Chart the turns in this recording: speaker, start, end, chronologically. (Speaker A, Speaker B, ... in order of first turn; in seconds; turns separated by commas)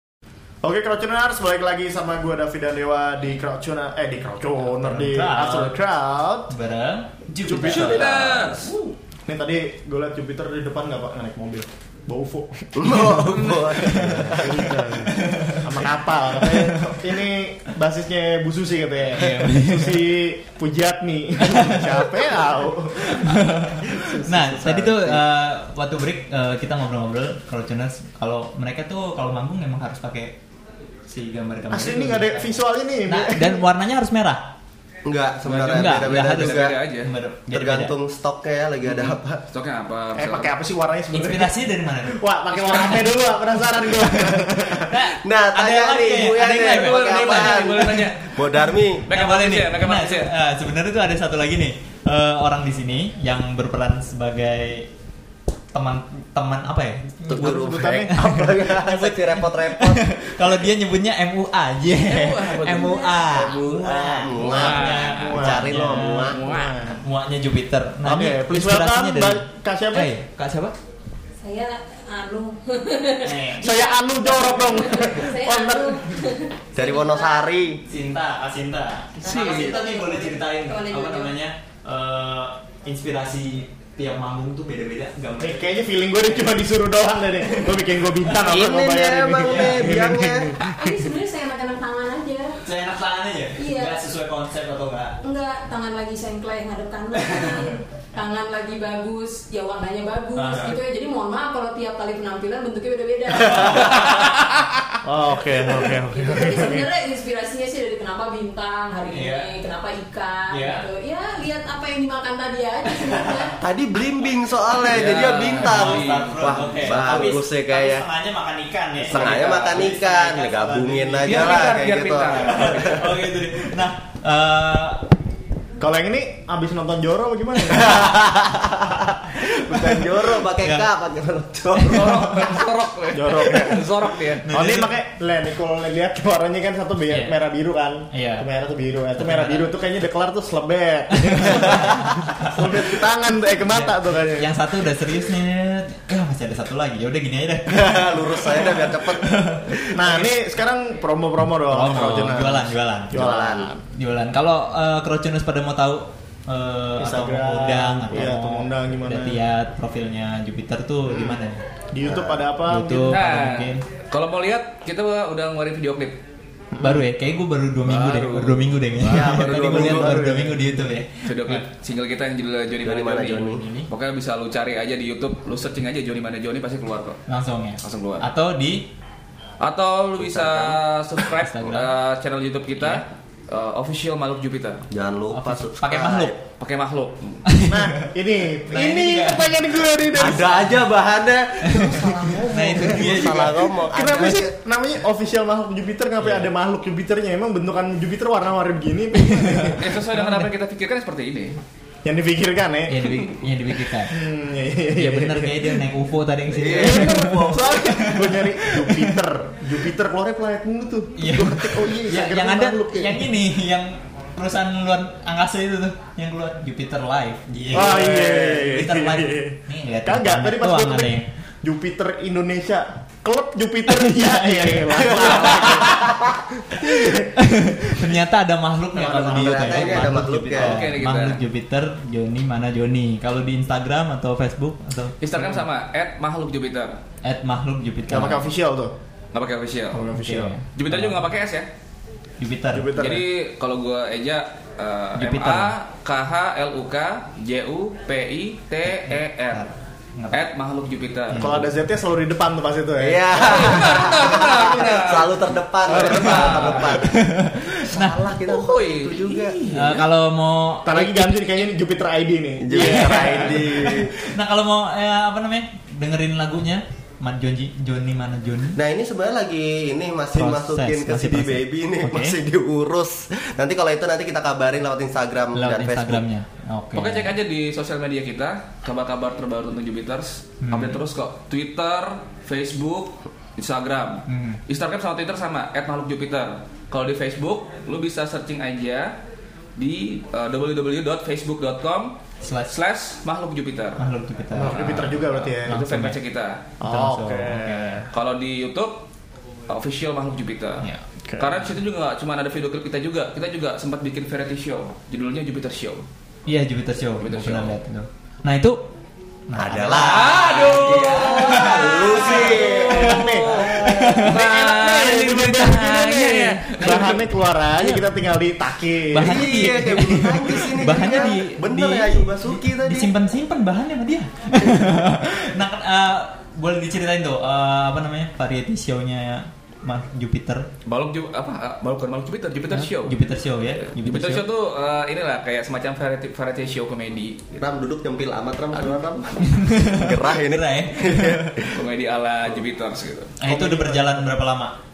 Speaker A: 0.6-6.5, Speaker B: 4.8-5.8, Speaker B: 6.5-8.4, Speaker A: 7.4-13.2, Speaker C: 7.6-8.7, Speaker D: 12.8-14.9, Speaker B: 13.8-15.7, Speaker A: 13.9-23.4, Speaker B: 16.5-17.0, Speaker B: 19.1-20.1, Speaker B: 21.4-22.2, Speaker B: 23.0-30.4, Speaker D: 23.9-25.2, Speaker B: 31.1-34.5, Speaker A: 31.7-33.6, Speaker D: 35.0-36.8, Speaker C: 35.4-37.1, Speaker B: 35.6-37.9, Speaker D: 37.5-39.4, Speaker C: 38.8-40.5, Speaker A: 40.1-44.9, Speaker B: 41.1-43.2, Speaker B: 43.8-54.9, Speaker D: 45.2-49.1, Speaker C: 46.5-48.3, Speaker C: 49.1-50.3, Speaker B: 55.7-70.8, Speaker D: 57.3-60.5, Speaker A: 57.3-58.3, Speaker C: 62.0-63.1, Speaker E: 62.8-63.2, Speaker D: 63.2-66.4, Speaker A: 64.4-67.0, Speaker C: 64.4-65.3, Speaker C: 66.2-66.8, Speaker A: 68.0-70.1, Speaker E: 71.4-77.5, Speaker B: 73.2-73.7, Speaker A: 73.6-76.1, Speaker D: 76.7-77.8, Speaker B: 77.9-85.7, Speaker E: 79.2-81.3, Speaker C: 79.2-79.7, Speaker A: 85.4-90.7, Speaker B: 87.5-88.5, Speaker D: 88.5-90.5, Speaker B: 89.5-90.1, Speaker E: 90.6-92.6, Speaker B: 92.6-95.2, Speaker E: 93.5-94.0, Speaker E: 95.2-103.9, Speaker B: 97.1-97.7, Speaker B: 100.3-100.8, Speaker B: 103.5-104.1, Speaker A: 105.0-106.9, Speaker E: 106.1-113.5, Speaker B: 109.1-109.5, Speaker B: 110.5-110.8, Speaker B: 113.0-113.3, Speaker D: 113.6-118.0, Speaker B: 114.9-121.8, Speaker C: 114.9-116.4, Speaker D: 119.0-123.1, Speaker C: 119.1-119.8, Speaker C: 121.2-123.0, Speaker B: 122.5-125.0, Speaker A: 125.8-128.2, Speaker D: 127.7-132.4, Speaker B: 130.6-130.9, Speaker B: 131.8-132.2, Speaker C: 131.9-134.4, Speaker A: 133.1-133.8, Speaker B: 134.4-134.9, Speaker A: 134.5-144.5, Speaker B: 137.1-137.4, Speaker B: 138.1-138.5, Speaker B: 139.2-139.7, Speaker B: 141.2-142.7, Speaker D: 141.7-142.0, Speaker B: 143.7-150.2, Speaker D: 147.7-150.3, Speaker A: 149.9-153.8, Speaker B: 151.6-153.3, Speaker D: 153.1-153.7, Speaker B: 153.9-161.6, Speaker A: 157.0-159.4, Speaker A: 161.1-161.4, Speaker A: 161.9-163.2, Speaker D: 162.0-162.4, Speaker B: 162.6-163.8, Speaker C: 163.1-166.2, Speaker A: 166.7-167.0, Speaker B: 166.8-171.6, Speaker C: 167.8-168.8, Speaker D: 169.0-170.3, Speaker A: 169.4-170.7, Speaker C: 171.2-177.2, Speaker D: 172.8-173.6, Speaker B: 173.4-173.9, Speaker B: 177.3-178.9, Speaker C: 177.8-178.3, Speaker C: 179.6-184.8, Speaker D: 180.2-180.8, Speaker B: 181.2-181.9, Speaker B: 182.8-183.0, Speaker D: 184.9-186.4, Speaker B: 185.3-186.3, Speaker C: 186.6-187.4, Speaker B: 187.4-187.9, Speaker A: 187.7-190.8, Speaker B: 188.7-190.8, Speaker D: 190.2-194.5, Speaker B: 191.6-193.8, Speaker A: 193.1-193.3, Speaker A: 193.9-199.8, Speaker B: 196.2-196.5, Speaker B: 199.2-200.5, Speaker C: 199.8-201.6, Speaker A: 202.0-203.1, Speaker B: 202.9-204.1, Speaker A: 204.1-205.8, Speaker B: 204.9-209.2, Speaker D: 206.5-207.9, Speaker A: 206.6-213.3, Speaker B: 211.2-221.3, Speaker A: 217.7-226.1, Speaker B: 223.9-225.8, Speaker D: 225.0-227.1, Speaker B: 227.0-235.5, Speaker D: 229.0-230.8, Speaker A: 229.0-229.7, Speaker C: 230.5-231.4, Speaker C: 235.2-237.0, Speaker B: 237.2-238.5, Speaker A: 238.1-238.9, Speaker C: 239.3-240.0, Speaker A: 239.9-240.5, Speaker B: 240.1-241.3, Speaker C: 240.8-241.7, Speaker B: 242.4-242.9, Speaker A: 242.7-243.2, Speaker C: 243.0-249.6, Speaker B: 245.2-245.7, Speaker B: 248.8-250.4, Speaker C: 250.3-251.5, Speaker B: 251.3-251.7, Speaker A: 251.3-253.7, Speaker D: 253.0-259.9, Speaker C: 253.3-255.3, Speaker A: 255.9-256.9, Speaker C: 255.9-256.8, Speaker B: 256.4-258.2, Speaker C: 258.4-260.0, Speaker B: 259.6-261.6, Speaker A: 260.8-263.7, Speaker D: 262.6-264.1, Speaker B: 262.7-268.8, Speaker D: 268.7-276.2, Speaker B: 270.3-272.4, Speaker B: 275.5-277.4, Speaker C: 276.9-289.1, Speaker B: 280.6-281.0, Speaker B: 284.3-284.6, Speaker C: 289.8-294.0, Speaker B: 292.4-292.7, Speaker B: 294.0-296.2, Speaker A: 294.5-295.8, Speaker C: 294.7-296.6, Speaker A: 296.8-298.1, Speaker B: 296.8-298.1, Speaker C: 298.1-299.1, Speaker C: 299.7-300.9, Speaker C: 301.4-306.1, Speaker B: 306.4-308.9, Speaker C: 307.2-307.7, Speaker B: 309.5-312.0, Speaker D: 309.5-313.3, Speaker C: 309.9-317.2, Speaker A: 312.2-319.9, Speaker B: 313.0-314.4, Speaker B: 315.5-317.2, Speaker B: 317.8-318.1, Speaker B: 319.1-330.7, Speaker D: 319.2-323.1, Speaker C: 330.9-333.2, Speaker B: 332.7-334.4, Speaker C: 333.8-337.4, Speaker D: 337.5-341.8, Speaker C: 338.7-339.4, Speaker B: 339.4-341.5, Speaker C: 341.7-343.3, Speaker B: 343.4-344.7, Speaker A: 343.4-344.3